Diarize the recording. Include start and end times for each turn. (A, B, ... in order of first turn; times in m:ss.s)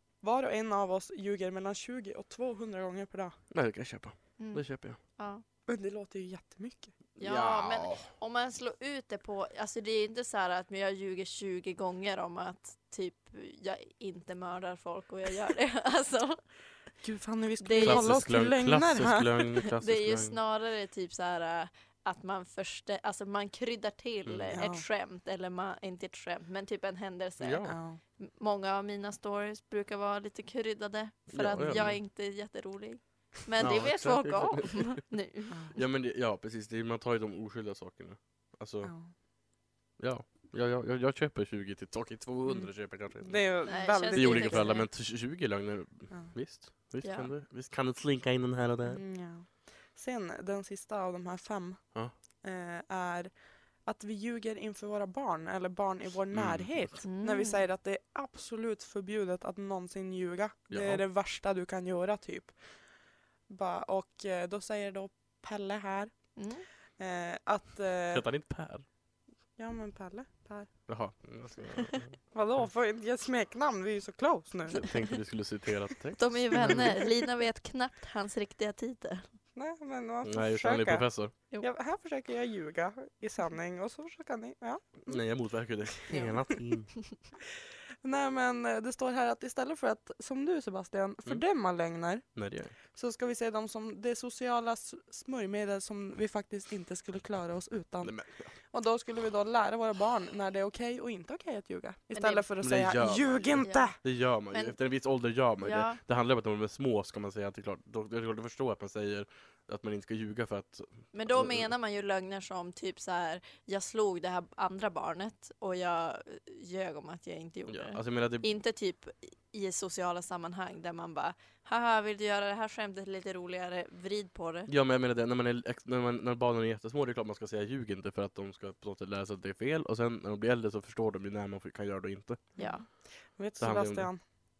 0:00.2-0:03.4 A
0:03.5-0:05.0 B
0:04.4-0:04.6 C
0:05.2-0:05.4 C
0:05.7-0:06.9 A
0:07.2-0:08.1 B
0:07.2-0:16.4 C
0:17.0-0:19.5 A
0:17.6-0:18.2 C
0:17.8-0:20.4 B
0:19.8-0:35.8 C
0:24.2-0:24.6 B
0:24.5-0:24.8 A
0:27.4-0:27.8 B
0:27.6-0:28.0 A
0:31.3-0:32.0 B
0:33.6-0:35.0 B
0:35.7-0:38.9 B
0:38.8-0:39.1 A
0:40.0-0:43.4 B
0:42.4-0:42.7 A
0:43.2-0:44.7 A
0:43.6-0:44.9 C
0:44.0-0:49.0 B
0:47.0-0:47.3 C
0:48.8-0:51.9 A
0:52.4-0:53.3 A
0:53.8-1:02.5 A
0:56.3-0:56.9 B
0:57.0-0:57.6 C
1:00.7-1:01.0 B
1:03.5-1:06.2 A
1:06.4-1:06.6 C
1:07.0-1:08.2 A
1:08.1-1:08.8 B
1:09.6-1:10.7 A
1:10.9-1:12.2 B
1:12.3-1:14.9 A
1:14.7-1:17.0 B
1:16.2-1:19.3 C
1:16.6-1:16.9 A
1:19.6-1:25.2 A
1:20.2-1:21.3 B
1:25.0-1:26.9 B
1:26.1-1:26.4 C
1:28.0-1:32.3 A
1:32.4-1:32.7 B
1:32.9-1:38.1 A
1:38.0-1:38.5 B
1:38.7-1:44.0 A
1:42.1-1:42.4 C
1:42.6-1:51.7 B
1:43.6-1:43.9 C
1:44.5-1:44.8 C
1:45.6-1:46.0 C
1:51.1-2:04.7 C
1:57.7-1:58.4 B
2:04.7-2:12.4 B
2:12.6-2:12.8 C
2:13.4-2:14.2 A
2:13.6-2:14.1 B